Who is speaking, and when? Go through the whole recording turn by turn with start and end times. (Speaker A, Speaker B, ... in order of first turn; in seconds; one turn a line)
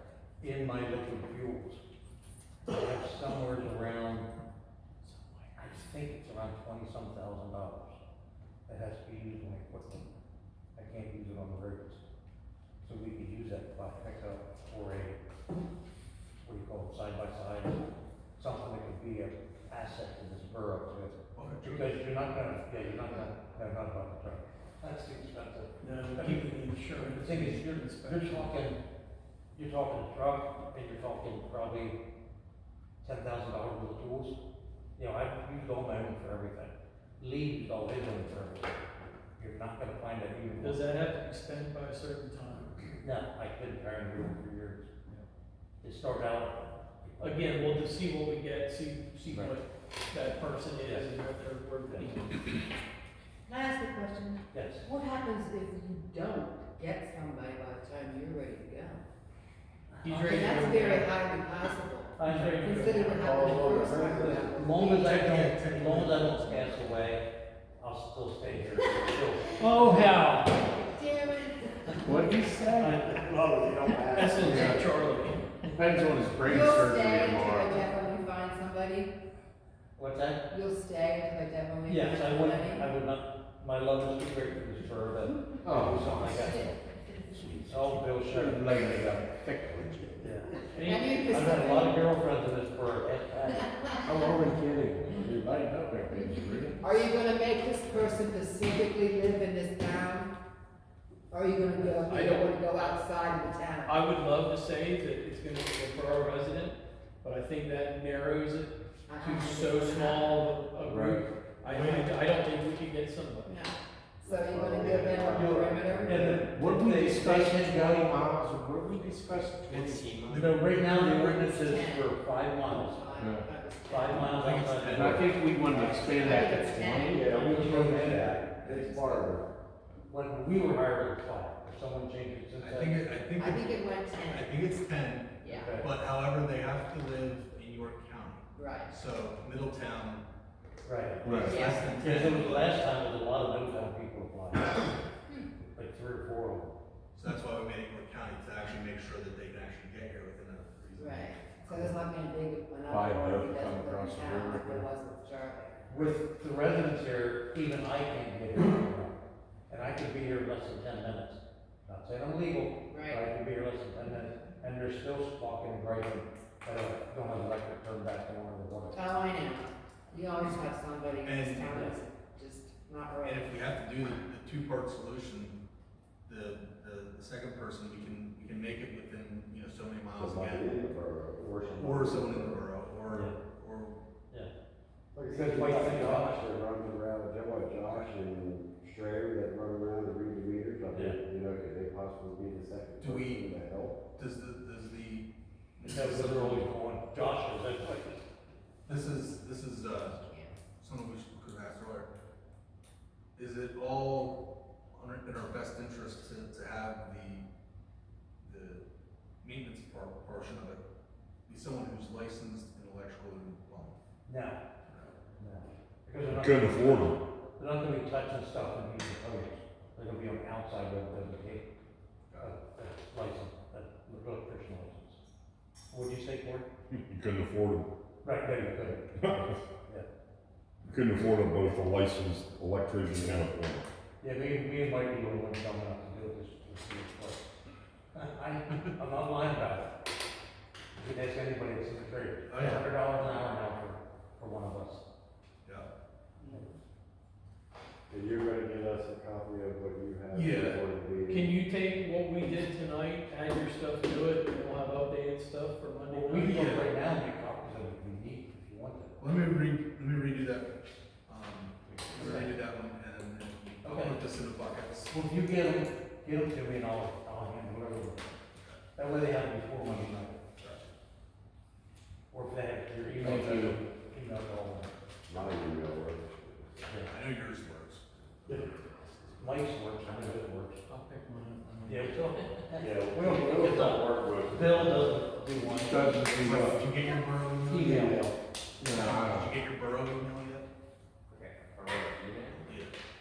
Speaker A: 0.4-1.8
Speaker A: 2.7-4.3
Speaker B: 5.0-5.9
Speaker A: 5.5-8.0
Speaker A: 8.7-10.1
Speaker A: 10.8-12.0
Speaker A: 12.8-15.2
Speaker A: 16.4-17.8
Speaker A: 18.4-28.8
Speaker C: 21.3-22.0
Speaker B: 25.8-28.5
Speaker A: 29.5-32.0
Speaker A: 33.0-34.4
Speaker A: 35.0-38.8
Speaker A: 39.4-40.8
Speaker B: 40.6-42.9
Speaker A: 43.0-44.9
Speaker A: 45.8-47.5
Speaker B: 47.2-52.6
Speaker A: 49.3-49.5
Speaker A: 50.8-51.1
Speaker A: 51.8-52.1
Speaker D: 53.5-59.0
Speaker A: 54.5-54.9
Speaker B: 60.0-61.1
Speaker D: 60.1-65.2
Speaker A: 62.2-63.2
Speaker B: 62.2-63.2
Speaker E: 63.2-64.6
Speaker A: 64.2-67.2
Speaker C: 64.8-67.0
Speaker A: 67.8-70.2
Speaker B: 69.6-70.5
Speaker D: 70.8-72.2
Speaker F: 72.0-73.1
Speaker A: 72.7-74.0
Speaker E: 73.2-74.8
Speaker B: 74.1-75.7
Speaker F: 74.4-74.8
Speaker F: 75.7-77.8
Speaker D: 76.4-79.1
Speaker A: 80.0-80.5
Speaker D: 80.5-82.8
Speaker A: 81.9-86.7
Speaker F: 85.6-86.2
Speaker A: 87.7-89.3
Speaker F: 88.3-90.3
Speaker A: 90.2-93.9
Speaker D: 90.7-92.0
Speaker D: 93.5-94.1
Speaker F: 94.0-96.8
Speaker D: 96.8-100.3
Speaker D: 101.3-103.9
Speaker A: 101.8-102.1
Speaker B: 102.1-102.5
Speaker B: 103.8-113.6
Speaker D: 109.1-110.4
Speaker F: 110.9-111.2
Speaker C: 111.6-112.1
Speaker D: 113.5-116.4
Speaker E: 114.2-116.4
Speaker A: 115.3-118.2
Speaker F: 116.4-120.4
Speaker C: 119.7-121.5
Speaker A: 120.3-123.2
Speaker D: 121.1-124.5
Speaker F: 123.2-123.4
Speaker A: 123.8-126.0
Speaker C: 124.1-126.2
Speaker F: 124.9-127.8
Speaker D: 125.8-127.7
Speaker E: 127.1-129.4
Speaker A: 127.4-129.2
Speaker A: 130.1-133.0
Speaker C: 132.6-140.2
Speaker D: 133.3-134.6
Speaker D: 135.4-135.8
Speaker A: 135.5-135.8
Speaker D: 138.5-138.9
Speaker A: 140.8-145.0
Speaker C: 141.2-142.8
Speaker F: 141.2-141.6
Speaker D: 141.2-142.5
Speaker A: 145.7-146.7
Speaker C: 147.1-151.7
Speaker D: 151.0-155.8
Speaker F: 152.9-154.8
Speaker A: 155.9-159.2
Speaker A: 159.7-169.1
Speaker D: 162.9-163.2
Speaker D: 168.9-173.5
Speaker C: 171.2-171.7
Speaker C: 173.2-175.6
Speaker C: 176.3-180.9
Speaker E: 180.2-182.6
Speaker C: 181.8-184.0
Speaker A: 183.1-183.4
Speaker E: 185.1-194.0
Speaker A: 185.2-186.5
Speaker A: 190.9-191.2
Speaker C: 193.0-193.4
Speaker C: 194.1-195.3
Speaker C: 195.8-197.3
Speaker A: 195.8-198.2
Speaker C: 198.8-200.2
Speaker D: 199.9-200.5
Speaker C: 200.8-202.1
Speaker C: 203.3-207.4
Speaker C: 208.4-208.8
Speaker C: 209.4-210.8
Speaker C: 211.5-214.0
Speaker A: 214.2-214.6
Speaker C: 214.9-215.1
Speaker A: 215.3-221.7
Speaker G: 216.3-217.2
Speaker A: 222.4-225.2
Speaker A: 225.9-226.7
Speaker G: 226.9-227.9
Speaker A: 228.2-230.1
Speaker G: 229.2-229.6
Speaker G: 230.9-233.8
Speaker A: 234.2-237.5
Speaker A: 238.1-240.0
Speaker A: 240.9-245.0
Speaker C: 242.5-243.5
Speaker E: 248.1-251.5
Speaker C: 250.3-250.8
Speaker B: 251.3-256.6
Speaker A: 256.1-259.2
Speaker C: 256.4-256.9
Speaker C: 259.2-260.7
Speaker C: 261.3-265.1
Speaker A: 262.1-262.6
Speaker A: 263.8-264.2
Speaker A: 265.1-268.3
Speaker A: 268.9-270.4
Speaker C: 270.6-270.9
Speaker A: 272.3-274.9
Speaker F: 273.2-273.7
Speaker E: 275.3-276.7
Speaker A: 276.9-277.1
Speaker C: 277.1-278.0
Speaker A: 279.4-280.8
Speaker B: 280.9-282.1
Speaker A: 281.8-286.2
Speaker F: 282.8-285.1
Speaker F: 285.8-286.9
Speaker C: 286.2-288.1
Speaker A: 287.7-288.3
Speaker F: 287.8-288.2
Speaker F: 288.8-289.5
Speaker C: 288.8-290.7
Speaker C: 292.6-292.9